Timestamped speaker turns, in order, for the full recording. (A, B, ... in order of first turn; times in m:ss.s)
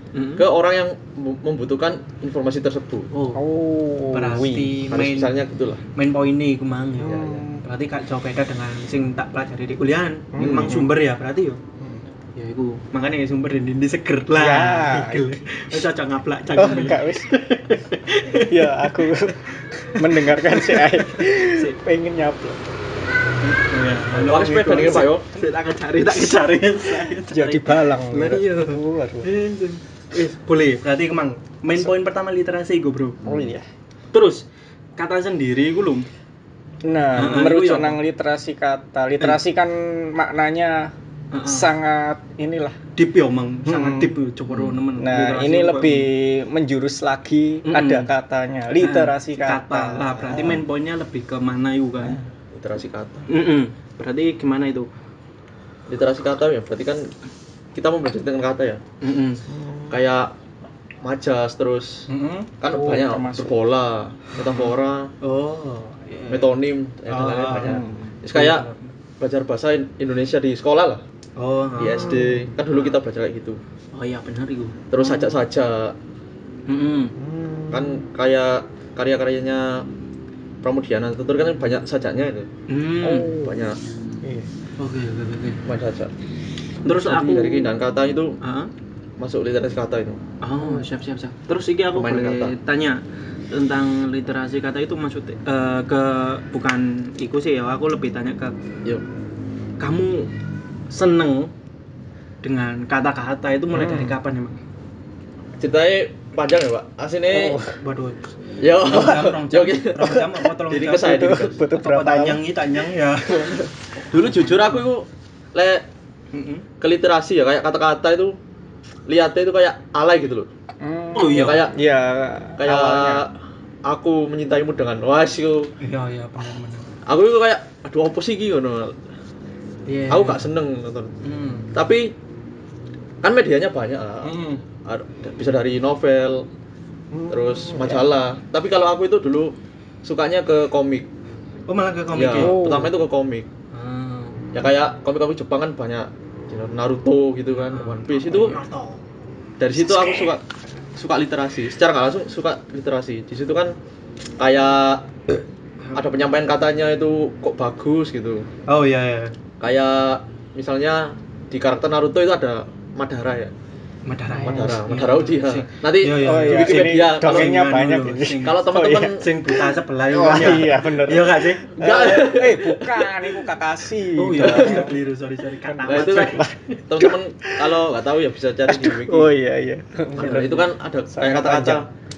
0:00.1-0:00.5 A
0:00.4-0:03.1 B
0:03.1-0:03.4 A
0:03.4-0:04.8 C
0:04.1-0:05.3 A
0:04.9-0:05.8 B
0:06.0-0:11.6 A
0:07.0-0:07.6 C
0:07.0-0:07.4 B
0:10.3-0:11.0 C
0:10.4-0:10.9 B
0:12.4-0:19.1 A
0:14.3-0:15.9 C
0:16.5-0:22.7 C
0:20.0-0:21.8 A
0:23.6-0:33.2 A
0:24.2-0:25.3 B
0:26.9-0:29.3 C
0:33.2-0:33.7 C
0:34.1-0:34.5 A
0:35.0-0:36.1 A
0:36.8-0:42.8 C
0:37.1-0:38.0 A
0:41.3-0:41.7 A
0:43.0-0:46.1 A
0:43.7-0:44.2 C
0:44.5-0:44.8 B
0:45.0-0:50.6 C
0:47.7-0:48.1 A
0:48.8-0:52.2 A
0:52.0-0:52.2 C
0:52.5-0:53.3 B
0:53.3-0:54.9 A
0:55.9-0:57.1 B
0:57.8-0:58.8 B
0:59.0-0:59.4 A
0:59.5-1:00.0 C
0:59.9-1:00.3 B
1:01.0-1:02.1 B
1:02.1-1:02.5 A
1:02.6-1:05.1 B
1:02.6-1:03.6 C
1:04.4-1:06.6 A
1:06.3-1:08.7 B
1:07.1-1:08.9 A
1:07.6-1:08.1 C
1:09.2-1:11.0 B
1:11.4-1:13.0 A
1:11.8-1:13.6 B
1:13.9-1:15.3 A
1:14.9-1:16.0 B
1:16.7-1:17.2 A
1:17.2-1:18.0 C
1:17.7-1:19.9 B
1:20.6-1:22.5 B
1:22.7-1:23.4 A
1:23.0-1:23.7 C
1:23.3-1:23.8 B
1:24.2-1:24.5 C
1:24.8-1:25.6 A
1:25.6-1:26.1 B
1:26.8-1:27.8 A
1:26.9-1:28.4 B
1:28.4-1:28.7 A
1:29.2-1:30.2 B
1:30.4-1:38.6 A
1:30.6-1:30.9 C
1:31.9-1:32.6 B
1:39.8-1:40.3 A
1:40.9-1:41.5 A
1:42.4-1:44.6 A
1:43.7-1:44.2 C
1:45.6-1:47.6 B
1:47.3-1:47.8 C
1:47.7-1:54.8 A
1:48.6-1:50.1 B
1:50.0-1:52.6 C
1:50.7-1:51.6 B
1:54.1-1:55.9 B
1:56.3-1:56.6 A
1:56.8-1:58.4 B
1:59.1-2:00.5 B
2:00.8-2:03.3 C
2:01.2-2:01.7 A
2:01.3-2:01.8 B
2:02.6-2:03.3 B
2:03.9-2:05.7 B
2:05.8-2:06.9 A
2:07.1-2:09.0 B
2:09.9-2:10.4 A
2:10.1-2:11.1 B
2:11.2-2:11.7 A
2:11.8-2:12.1 B
2:13.2-2:16.5 B
2:14.3-2:14.6 C
2:17.1-2:18.1 C
2:17.3-2:21.1 B
2:21.7-2:22.6 A
2:22.1-2:23.5 B
2:22.4-2:23.0 C
2:23.7-2:24.5 A
2:24.5-2:28.6 B
2:27.6-2:29.0 A
2:29.6-2:30.4 B
2:30.0-2:30.3 A
2:31.0-2:33.8 B
2:34.4-2:35.1 B
2:35.8-2:36.1 A
2:36.0-2:38.5 B
2:38.7-2:39.4 A
2:39.6-2:43.5 B
2:44.1-2:51.9 A
2:44.3-2:44.8 C
2:44.4-2:47.6 B
2:46.2-2:55.0 C
2:48.4-2:49.2 B
2:51.8-2:53.0 B
2:54.1-2:56.8 A
2:54.4-2:54.9 B
2:55.6-2:57.8 C
2:55.9-2:59.4 B
2:58.7-3:01.8 C
3:00.2-3:00.6 A
3:00.2-3:01.9 B